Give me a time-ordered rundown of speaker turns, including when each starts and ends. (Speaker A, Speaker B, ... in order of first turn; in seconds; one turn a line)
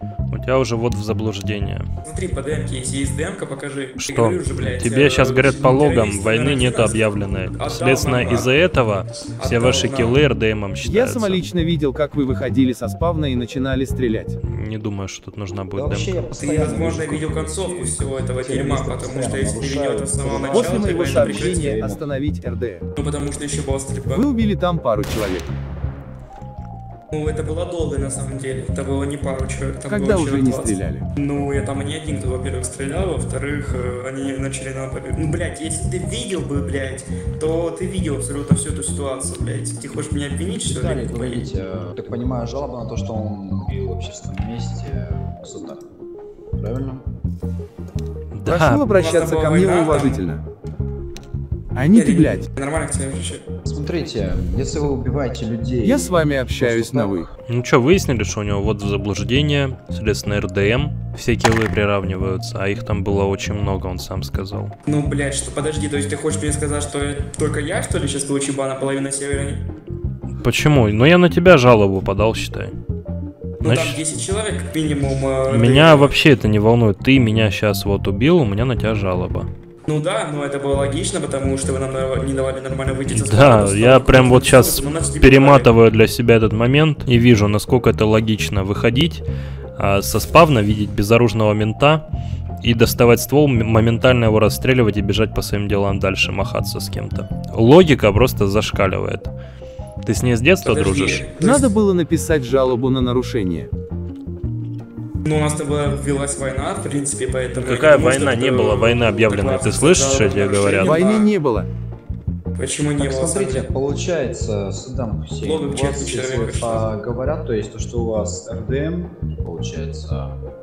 Speaker A: 0.3-1.9
Speaker B: 2.0-8.6
Speaker A: 4.0-11.4
Speaker B: 9.4-10.2
Speaker C: 10.8-14.4
Speaker A: 14.4-16.3
Speaker D: 15.8-22.1
Speaker B: 16.4-21.7
Speaker C: 20.3-22.8
Speaker B: 23.0-24.3
Speaker C: 24.1-25.5
Speaker B: 27.1-41.5
Speaker C: 29.9-31.1
Speaker D: 40.5-45.8
Speaker D: 46.6-47.0
Speaker A: 48.3-48.9
Speaker C: 48.5-50.4
Speaker B: 48.9-50.3
Speaker C: 51.8-52.5
Speaker B: 51.9-53.5
Speaker D: 53.6-57.3
Speaker C: 55.8-57.3
Speaker A: 57.5-64.7
Speaker B: 64.9-69.7
Speaker A: 70.4-72.7
Speaker B: 73.6-76.2
Speaker A: 73.6-74.0
Speaker A: 75.5-79.5
Speaker B: 79.9-85.7
Speaker A: 83.1-89.2
Speaker A: 89.8-92.0
Speaker A: 92.6-99.3
Speaker A: 100.0-101.3
Speaker B: 100.6-101.7
Speaker C: 101.4-103.7
Speaker B: 105.2-111.3
Speaker A: 107.6-111.0
Speaker C: 110.8-111.7
Speaker B: 112.6-113.7
Speaker D: 113.0-120.3
Speaker B: 115.4-116.9